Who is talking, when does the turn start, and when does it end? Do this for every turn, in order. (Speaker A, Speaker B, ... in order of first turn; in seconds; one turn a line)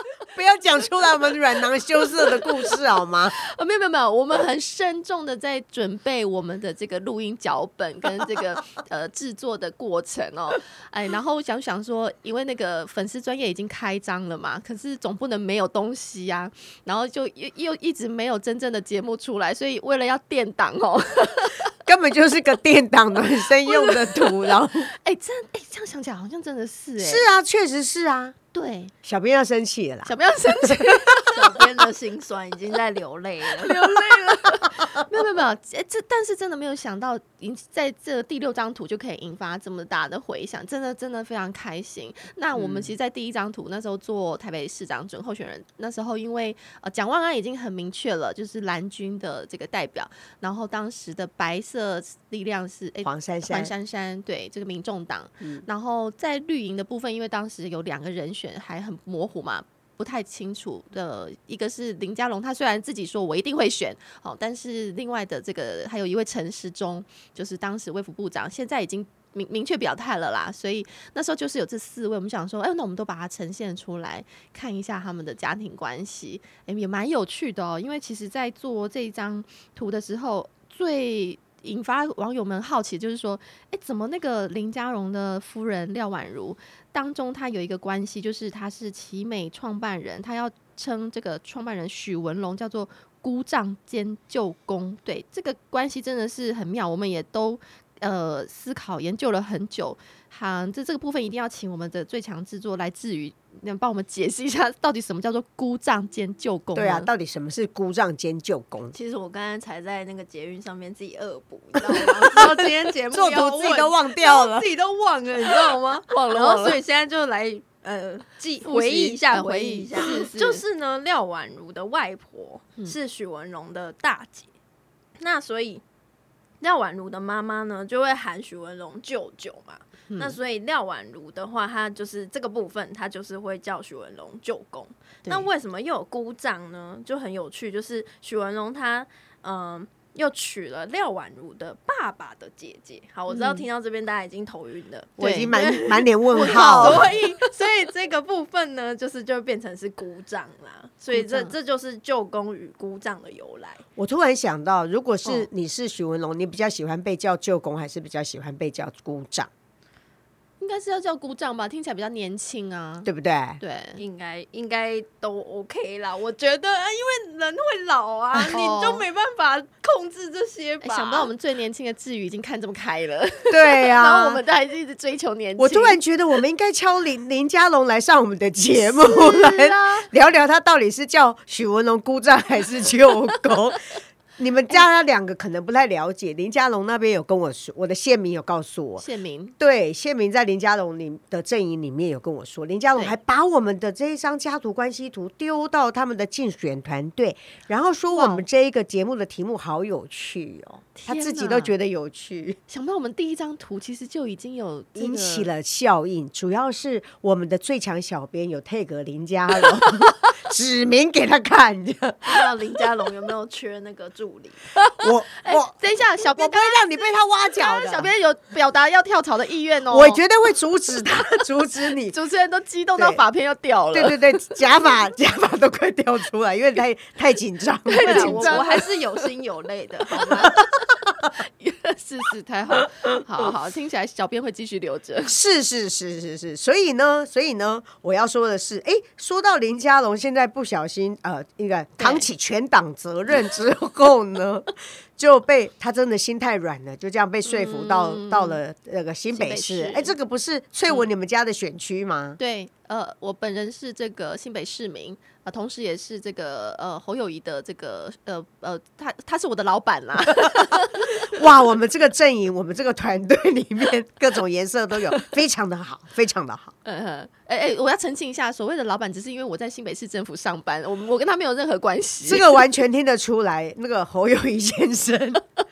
Speaker A: 0.3-3.4
Speaker B: 2.0-2.7
Speaker B: 3.4-21.7
Speaker A: 21.9-24.9
Speaker B: 23.6-27.3
Speaker A: 27.0-28.4
Speaker B: 28.5-28.9
Speaker A: 29.0-30.9
Speaker B: 30.1-31.6
Speaker C: 31.3-34.0
Speaker B: 33.6-107.1
Speaker A: 42.5-42.9
Speaker A: 53.0-53.7
Speaker A: 106.8-109.0
Speaker C: 108.9-124.5
Speaker A: 112.0-114.7
Speaker B: 116.1-116.8
Speaker B: 118.6-120.6
Speaker C: 125.2-125.8
Speaker C: 126.6-153.8
Speaker B: 130.1-130.4
Speaker B: 143.3-143.7
Speaker B: 145.2-145.6
Speaker A: 145.2-147.1
Speaker B: 146.3-147.5
Speaker B: 151.1-151.5
Speaker A: 154.0-159.5
Speaker B: 160.6-163.1
Speaker A: 163.1-163.6
Speaker B: 163.6-164.0
Speaker C: 164.0-171.3
Speaker B: 168.5-169.1
Speaker B: 170.8-176.0
Speaker A: 173.5-174.4
Speaker A: 175.6-183.8
Speaker B: 178.8-180.1
Speaker A: 184.4-189.1
Speaker B: 189.0-189.6
Speaker A: 189.6-202.6
Speaker B: 198.1-198.4
Speaker B: 201.0-201.7
Speaker B: 202.7-205.5
Speaker A: 205.0-212.4
Speaker C: 212.2-214.7
Speaker B: 214.8-217.0
Speaker A: 215.0-215.8
Speaker A: 216.3-218.1
Speaker B: 217.6-220.2
Speaker A: 219.9-222.2
Speaker B: 222.1-224.6
Speaker A: 223.9-228.8
Speaker B: 227.9-228.9
Speaker C: 228.0-230.6
Speaker B: 230.3-230.7
Speaker B: 231.3-235.4
Speaker A: 235.3-252.4
Speaker B: 242.0-242.3
Speaker B: 247.5-248.6
Speaker B: 249.3-250.1
Speaker B: 252.4-261.3
Speaker A: 261.2-266.8
Speaker B: 266.9-272.6
Speaker A: 272.2-275.4